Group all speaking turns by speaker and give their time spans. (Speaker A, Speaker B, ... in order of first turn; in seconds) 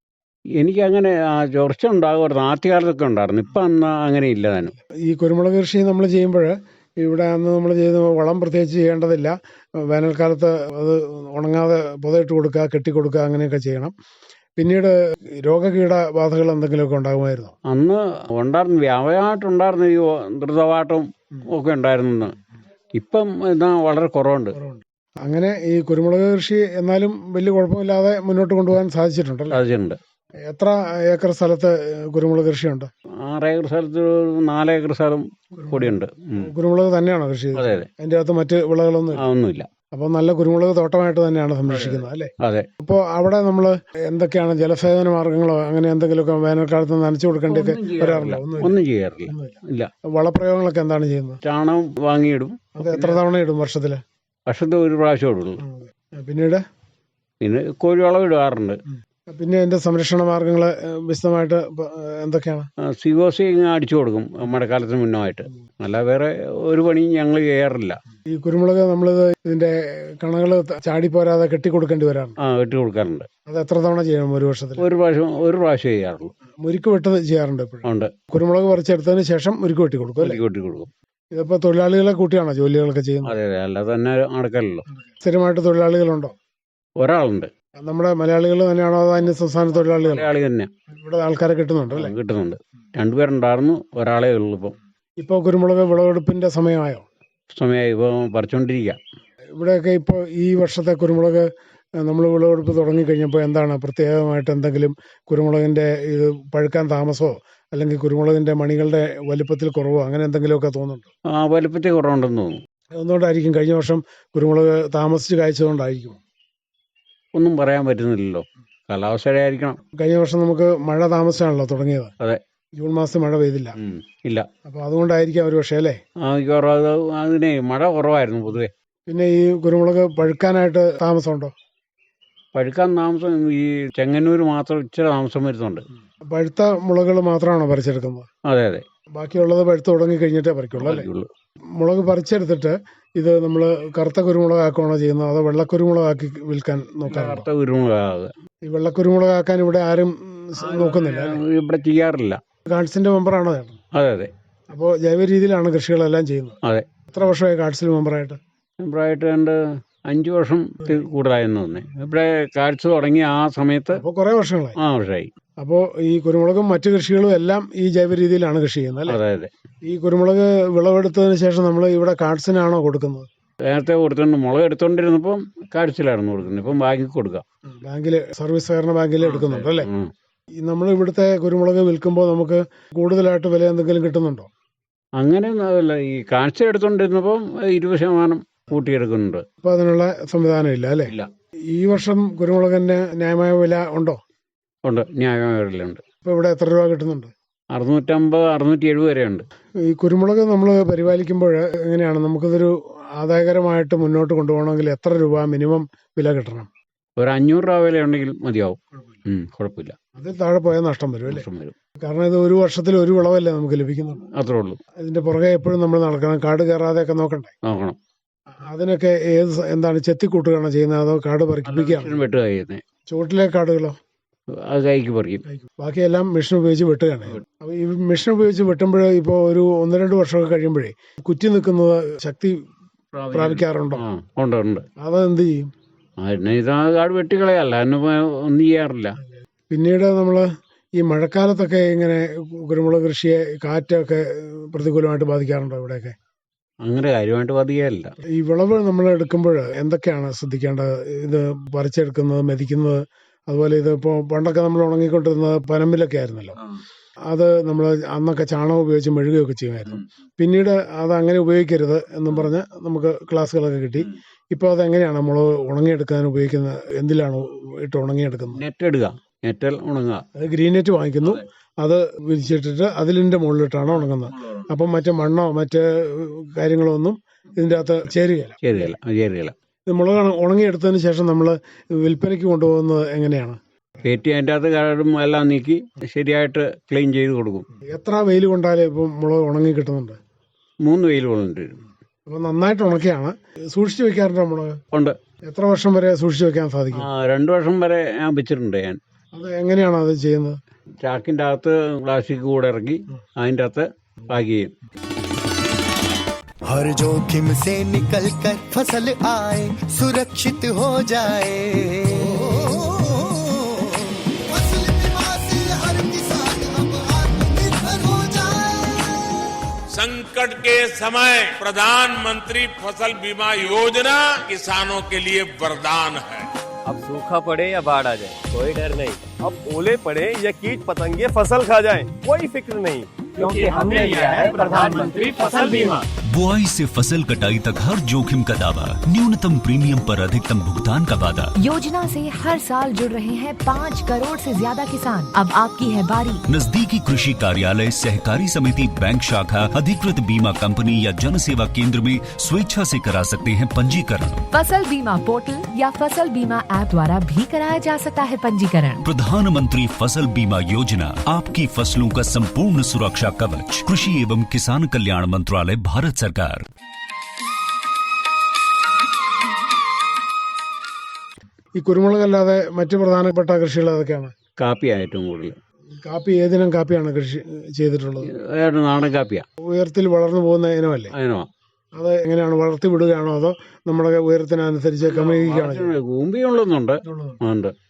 Speaker A: 0.6-4.7, 17.7-22.4, 22.9-24.6, 29.5-30.0, 33.2-36.5, 37.6-37.9, 39.2-39.7, 41.7-42.7, 47.5-49.9, 51.4-53.2, 54.5-55.6, 57.4-58.8, 62.8-68.0, 72.4-73.3, 74.8-76.3, 77.8-78.1, 80.2-80.9, 83.2-84.9, 87.0-87.5, 89.8-90.7, 91.9-94.8, 97.5-99.0, 111.3-112.6, 117.3-119.8, 123.8-124.5, 126.2-128.7, 132.6-135.9, 138.4-138.8, 140.8-141.3, 147.1-148.3, 150.6-152.4, 153.9-154.3, 156.6-156.9, 158.8-164.0, 164.8-165.3, 169.1-169.5, 173.7-177.4, 179.2-180.1, 185.2-189.4, 194.8-196.0, 197.7-199.5, 207.2-210.0, 211.3-211.8, 214.3-214.8, 217.7-218.0, 221.7-222.8, 224.5-225.4, 233.1-234.9, 236.2-239.2, 246.8-248.1, 268.5-270.2, 274.0-274.6, 278.6-279.6, 284.0-287.7, 290.8-291.8, 294.9-295.2, 296.9-299.0, 301.0-304.7, 374.6-375.6, 378.3-379.5, 381.1-381.5, 385.0-387.7
Speaker B: 4.9-13.9, 14.6-17.6, 24.6-29.6, 30.4-32.9, 35.6-39.2, 39.9-51.4, 52.8-54.0, 55.6-56.6, 58.9-62.7, 68.3-72.4, 73.5-74.9, 76.6-80.4, 81.3-83.4, 85.1-86.3, 87.8-90.3, 90.9-92.1, 95.2-97.1, 99.6-111.1, 113.0-116.2, 120.0-122.1, 122.8-123.8, 124.7-126.0, 129.1-131.5, 136.3-138.3, 139.1-141.1, 141.8-147.5, 148.6-151.4, 152.7-153.8, 154.7-156.6, 157.1-158.4, 163.9-164.8, 165.6-169.2, 169.8-173.3, 177.7-179.9, 180.6-184.5, 189.6-191.1, 191.7-194.2, 196.2-197.3, 199.8-206.7, 210.2-211.5, 212.0-214.2, 215.0-217.5, 218.5-222.2, 223.1-224.0, 225.5-232.6, 233.3-234.0, 235.0-235.7, 239.7-246.2, 248.3-256.6, 257.3-268.6, 270.4-278.6, 279.9-283.6, 287.8-290.2, 292.3-294.8, 295.5-297.1, 299.3-300.6, 371.8-374.3, 376.0-378.3, 379.6-381.1, 381.9-385.9, 387.0-387.4
Speaker C: 306.7-319.2
Speaker D: 320.0-326.5, 333.4-335.8
Speaker E: 326.9-336.0
Speaker F: 336.3-341.5, 346.5-354.4, 359.0-366.7
Speaker G: 341.6-346.4, 354.5-359.0